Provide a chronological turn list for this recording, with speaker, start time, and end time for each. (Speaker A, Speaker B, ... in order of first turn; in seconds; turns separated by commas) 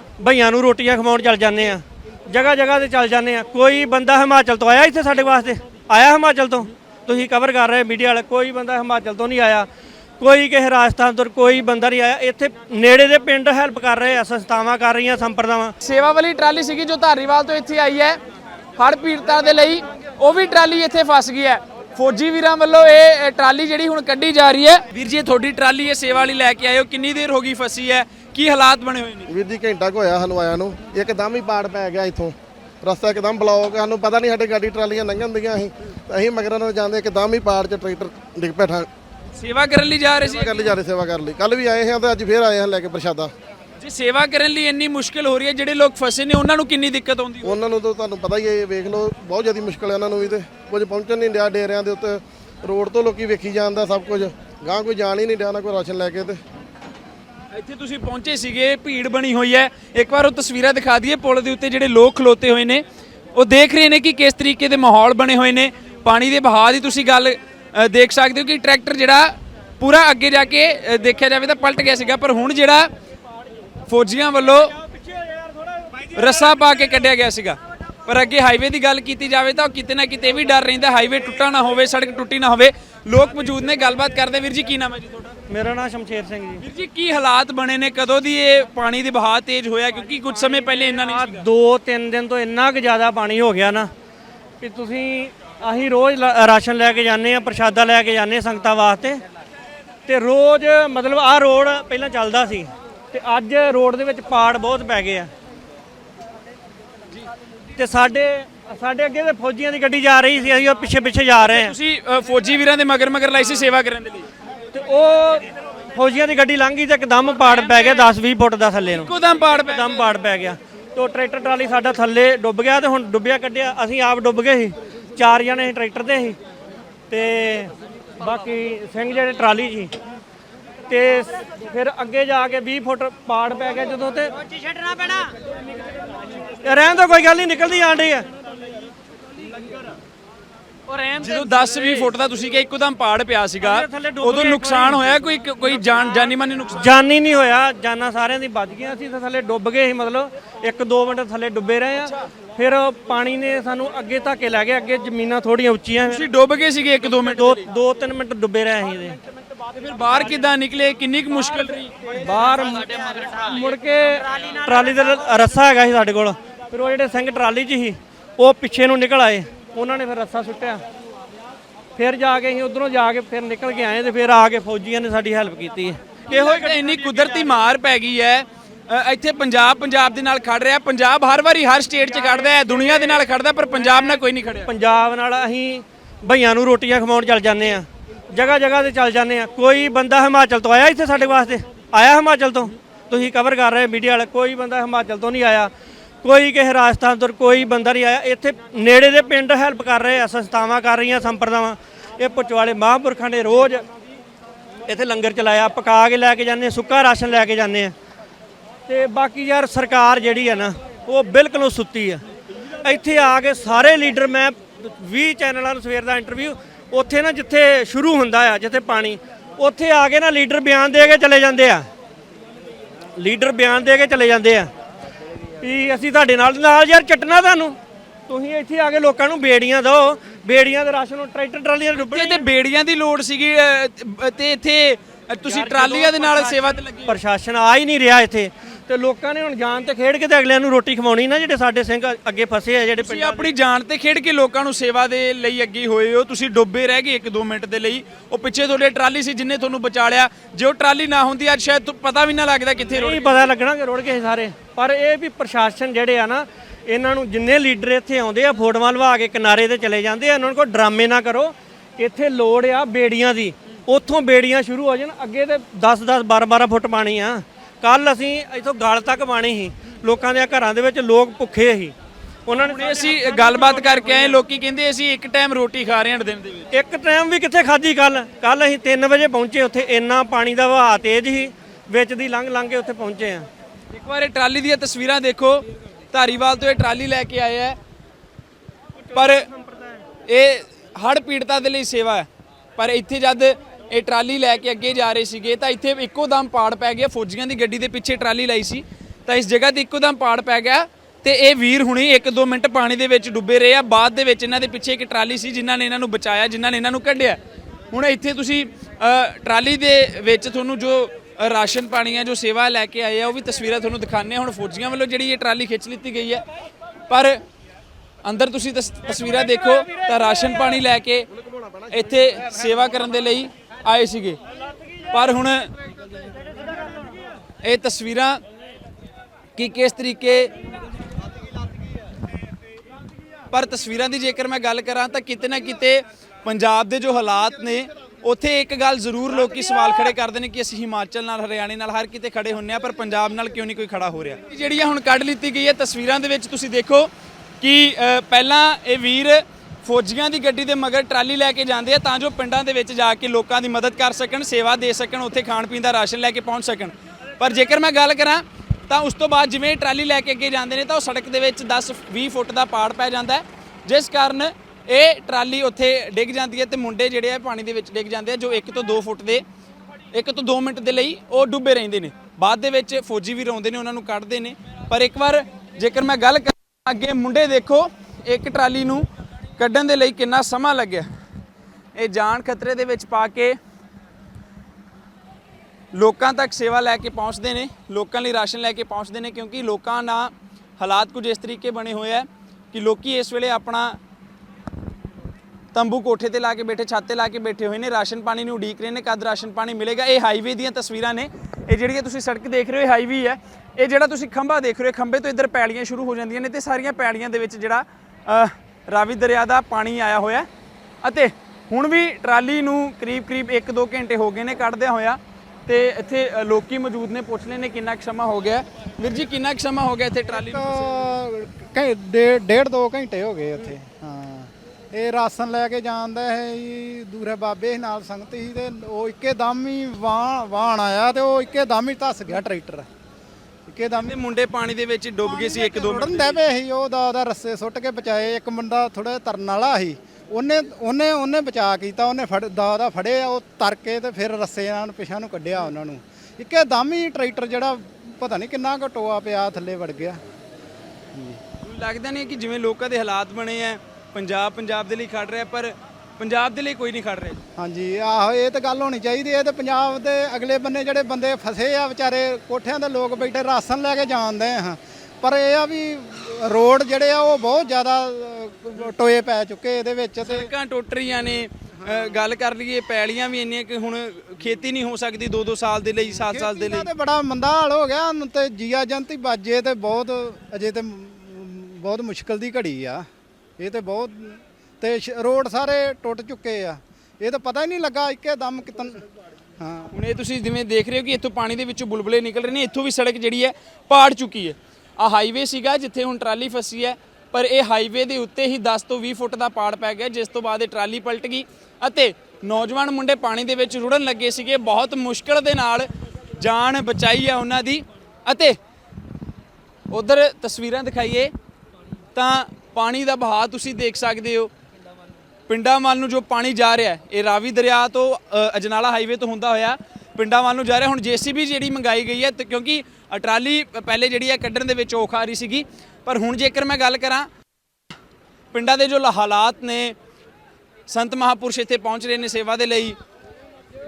Speaker A: 0.2-9.7, Speaker A: 10.2-15.8, Speaker B: 15.8-18.2, Speaker B: 18.8-29.3, Speaker C: 29.3-38.9, Speaker B: 39.4-40.8, Speaker C: 40.2-43.3, Speaker B: 43.8-47.6, Speaker C: 47.4-56.4, Speaker B: 57.5-62.8, Speaker B: 63.4-72.9, Speaker B: 73.9-74.8, Speaker B: 76.1-85.3, Speaker A: 85.5-86.6, Speaker B: 86.6-91.5, Speaker A: 91.0-93.9, Speaker A: 94.6-99.2, Speaker A: 100.1-105.3, Speaker A: 107.8-111.8, Speaker B: 111.4-114.3, Speaker A: 114.7-119.1, Speaker B: 117.3-118.1, Speaker B: 118.9-120.1, Speaker A: 119.7-126.4, Speaker A: 127.1-129.9, Speaker A: 130.9-135.3, Speaker A: 136.6-138.3, Speaker A: 140.9-142.1, Speaker B: 141.2-146.8, Speaker A: 143.6-145.2, Speaker A: 146.7-156.3, Speaker B: 156.1-157.7, Speaker A: 157.3-159.2, Speaker B: 159.7-162.1, Speaker A: 162.1-170.8, Speaker A: 172.0-176.9, Speaker B: 176.3-184.7, Speaker A: 184.7-195.7, Speaker A: 196.2-203.8, Speaker A: 204.9-207.9, Speaker A: 208.9-212.2, Speaker A: 212.8-221.9, Speaker A: 223.2-224.7, Speaker A: 225.6-227.8, Speaker A: 228.3-232.4, Speaker B: 232.0-237.1, Speaker A: 235.5-243.5, Speaker B: 243.0-253.3, Speaker A: 252.9-271.9, Speaker A: 272.5-274.4, Speaker B: 272.6-276.7, Speaker A: 276.7-283.5, Speaker B: 283.9-287.8, Speaker B: 289.1-289.4, Speaker B: 290.3-307.4, Speaker B: 307.9-316.4, Speaker B: 317.1-317.4, Speaker B: 318.2-321.3, Speaker B: 321.9-324.4, Speaker B: 325.1-325.7, Speaker B: 327.6-328.4, Speaker B: 329.6-330.5, Speaker B: 333.5-369.4, Speaker B: 370.1-381.1, Speaker B: 382.0-383.6, Speaker B: 385.9-394.0, Speaker B: 395.7-410.5, Speaker B: 411.0-421.1, Speaker D: 420.4-432.9, Speaker D: 433.7-434.1, Speaker B: 433.9-436.4, Speaker D: 435.2-450.2, Speaker D: 451.1-451.4, Speaker B: 451.6-457.4, Speaker D: 457.6-470.5, Speaker B: 470.2-476.9, Speaker D: 476.1-483.1, Speaker D: 483.6-489.0, Speaker D: 489.6-489.9, Speaker B: 489.9-508.6, Speaker B: 509.9-511.3, Speaker B: 512.1-514.5, Speaker B: 515.5-527.3, Speaker B: 528.5-530.0, Speaker B: 530.9-533.0